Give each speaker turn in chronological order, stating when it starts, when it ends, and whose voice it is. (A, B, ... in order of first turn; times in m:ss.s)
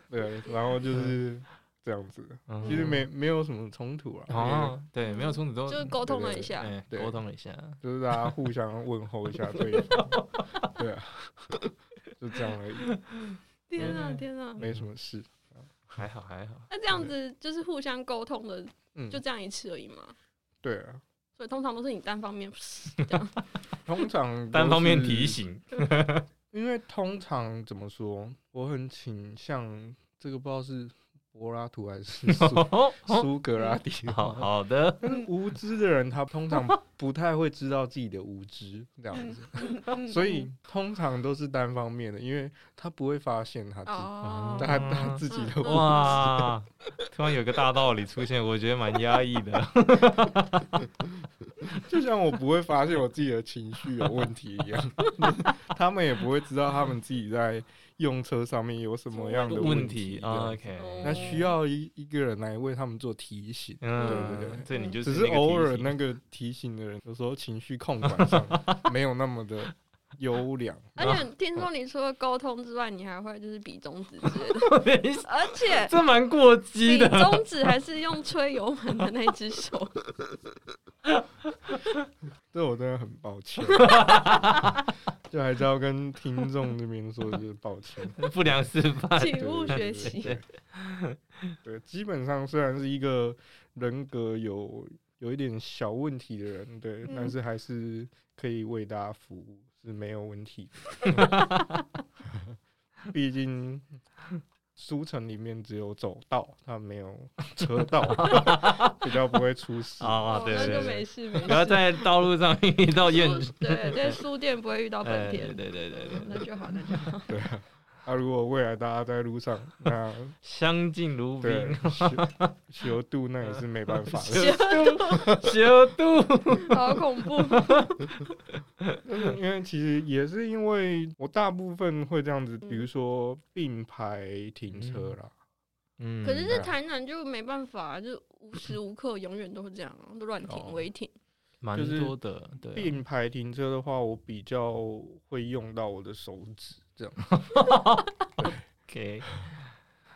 0:00.1-0:04.8 A
0:02.5-0:03.0 B
0:02.6-0:02.9 C
0:04.3-0:06.0 B
0:05.0-0:06.7 C
0:06.0-0:07.2 A
0:06.6-0:08.4 B
0:07.8-0:13.0 A
0:09.5-0:10.8 B
0:12.9-0:14.9 B
0:13.7-0:14.6 C
0:14.6-0:15.9 A
0:16.0-0:16.7 B
0:16.7-0:20.2 C
0:19.0-0:19.2 A
0:20.6-0:21.0 A
0:21.4-0:23.4 C
0:23.9-0:25.4 A
0:24.5-0:26.3 B
0:26.5-0:34.5 A
0:32.3-0:33.3 B
0:34.1-0:35.3 B
0:35.0-0:46.6 A
0:36.5-0:36.8 B
0:39.1-0:40.4 C
0:43.9-0:46.2 C
0:44.2-0:50.9 B
0:51.7-1:11.6 A
0:59.1-0:59.8 C
0:59.5-1:01.5 B
1:00.8-1:01.5 C
1:03.8-1:05.9 B
1:04.0-1:05.0 C
1:08.0-1:08.9 B
1:11.0-1:15.9 C
1:14.3-1:17.5 B
1:16.8-1:20.0 C
1:21.1-1:21.9 B
1:22.5-1:24.0 A
1:23.8-1:24.7 C
1:23.8-1:24.8 B
1:25.3-1:28.3 A
1:28.2-1:31.6 B
1:29.2-1:30.4 C
1:29.3-1:30.4 A
1:31.6-1:41.4 A
1:37.1-1:37.3 C
1:41.1-1:41.8 B
1:43.1-1:43.9 A
1:44.8-1:51.6 A
1:48.2-1:49.1 B
1:50.0-1:54.2 B
1:50.3-1:51.8 C
1:53.0-1:57.4 C
1:55.0-1:57.1 B
1:57.3-2:00.4 A
2:00.4-2:02.5 B
2:01.4-2:05.6 A
2:03.4-2:08.2 B
2:04.3-2:05.4 C
2:06.6-2:08.2 C
2:09.0-2:15.3 A
2:14.8-2:15.2 B
2:16.0-2:16.7 B
2:16.2-2:21.1 C
2:16.5-2:16.7 A
2:20.5-2:20.8 A
2:21.6-2:22.9 B
2:21.7-2:22.2 A
2:22.7-2:27.4 A
2:27.3-2:29.5 B
2:28.4-2:28.6 A